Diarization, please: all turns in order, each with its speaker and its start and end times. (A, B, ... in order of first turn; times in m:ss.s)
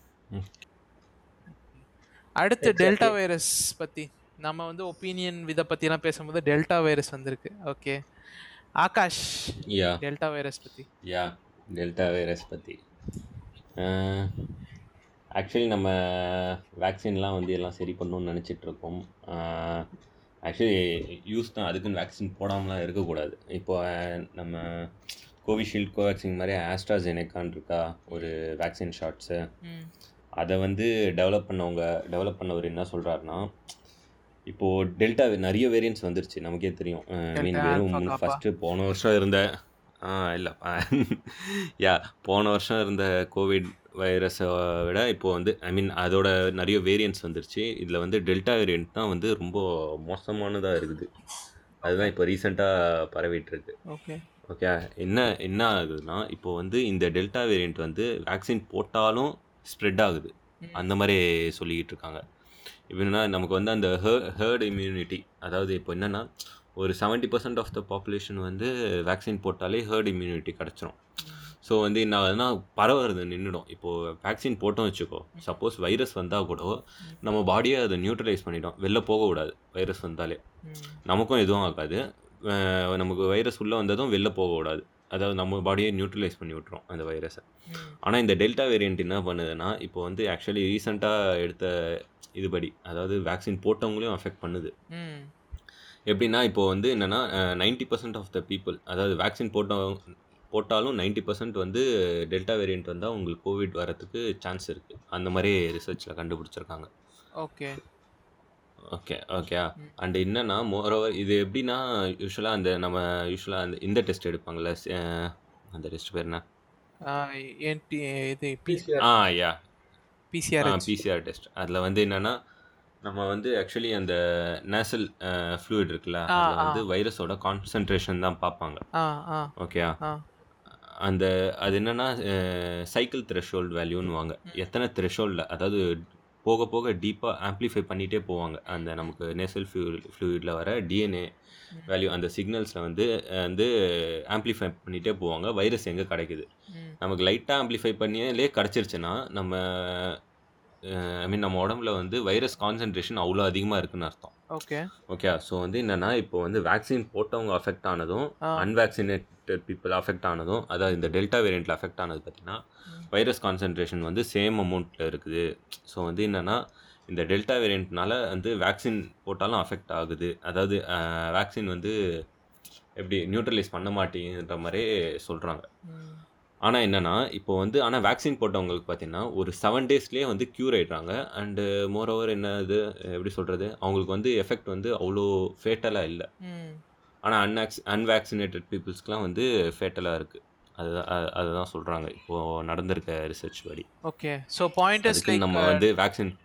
0:02.4-0:08.0 A
0:02.6-0:03.1 B
0:08.8-0:10.9 A
0:09.7-0:10.0 B
0:11.1-0:12.8 B
0:13.8-0:14.3 B
0:15.4-0:19.8 B
0:20.5-0:20.7 B
0:21.2-0:24.8 B
0:25.4-0:29.4 B
0:29.6-0:29.9 A
0:30.4-0:33.4 B
0:34.5-0:39.4 B
0:37.4-0:38.4 A
0:40.0-0:51.1 B
0:51.8-0:52.1 A
0:51.8-0:53.7 B
0:53.9-0:54.2 A
0:54.5-1:02.2 B
1:02.9-1:06.2 B
1:06.8-1:11.0 B
1:11.2-1:11.5 A
1:11.6-1:20.4 B
1:20.6-1:21.0 A
1:21.1-1:27.4 B
1:27.7-1:28.0 A
1:28.0-1:31.7 B
1:32.4-1:34.7 B
1:34.9-1:35.3 A
1:36.1-1:40.0 B
1:40.5-1:46.9 B
1:47.4-1:47.8 A
1:48.9-1:56.4 B
1:57.1-1:59.0 A
1:58.7-1:59.5 B
2:00.3-2:00.9 A
2:00.6-2:02.3 B
2:03.0-2:04.2 B
2:04.7-2:08.8 B
2:06.3-2:06.8 A
2:09.0-2:09.5 A
2:09.6-2:09.9 B
2:11.0-2:15.8 B
2:16.4-2:21.3 B
2:21.9-2:23.7 B
2:24.3-2:26.5 B
2:27.0-2:30.2 B
2:30.9-2:34.3 B
2:34.5-2:34.9 A
2:35.1-2:42.6 B
2:43.1-2:51.9 B
2:53.0-2:55.6 B
2:55.9-2:56.2 A
2:56.6-3:06.3 B
3:06.4-3:06.8 A
3:07.3-3:13.9 B
3:14.1-3:15.8 A
3:15.0-3:16.3 B